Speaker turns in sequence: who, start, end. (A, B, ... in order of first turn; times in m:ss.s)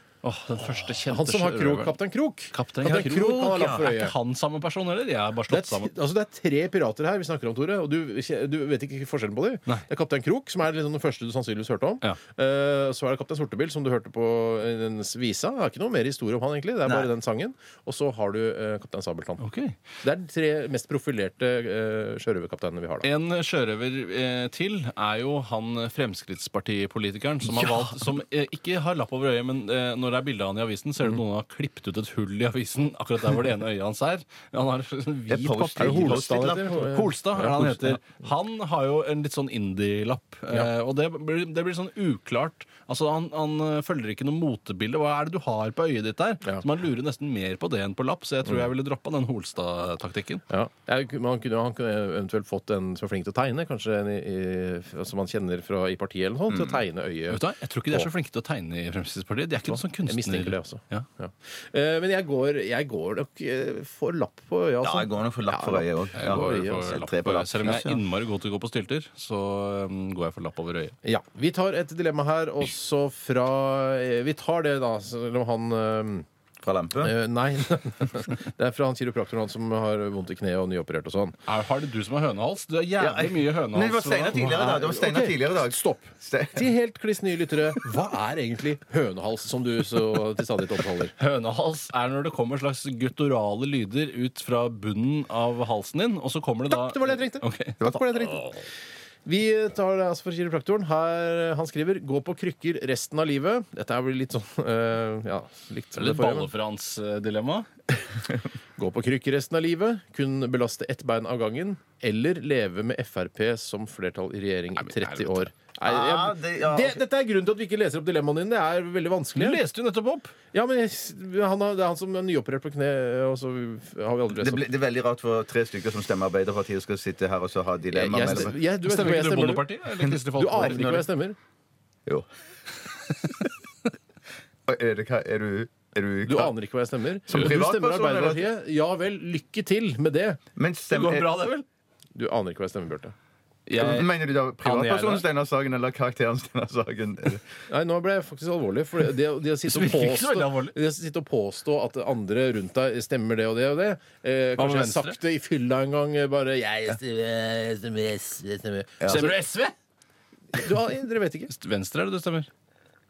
0:00.2-0:02.0 A
0:01.0-0:04.1 B
0:02.5-0:05.9 A
0:02.8-0:03.8 C
0:05.5-0:19.4 B
0:19.4-0:19.8 A
0:20.0-0:23.1 B
0:23.0-0:50.4 A
0:27.5-0:28.0 C
0:35.3-0:36.9 C
0:35.8-0:38.0 B
0:50.5-0:58.1 B
0:56.5-0:56.8 C
0:57.3-1:01.0 A
0:59.7-1:07.0 B
1:04.8-1:08.0 C
1:06.1-1:11.0 A
1:11.0-1:16.2 B
1:16.6-1:17.1 C
1:17.0-1:21.4 B
1:21.5-1:24.5 A
1:23.0-1:26.6 C
1:24.3-1:31.1 B
1:31.2-1:37.8 A
1:36.7-1:38.5 B
1:37.8-1:38.3 C
1:39.2-1:46.5 B
1:46.0-1:47.7 A
1:48.8-1:59.6 B
1:54.8-1:55.5 A
1:55.8-1:57.0 C
1:59.4-2:00.3 A
2:00.5-2:04.7 B
2:04.3-2:08.5 C
2:07.9-2:09.7 B
2:08.8-2:11.0 A
2:10.0-2:11.0 C
2:10.3-2:11.4 B
2:14.6-2:16.5 C
2:16.2-2:20.4 B
2:17.3-2:18.5 C
2:20.6-2:21.4 C
2:20.9-2:21.6 A
2:22.1-2:23.1 B
2:23.7-2:25.2 A
2:23.8-2:27.4 C
2:27.7-2:39.4 B
2:29.7-2:30.7 A
2:34.6-2:35.2 A
2:39.0-2:39.3 C
2:39.0-2:39.7 A
2:40.5-2:41.5 B
2:41.5-2:42.5 A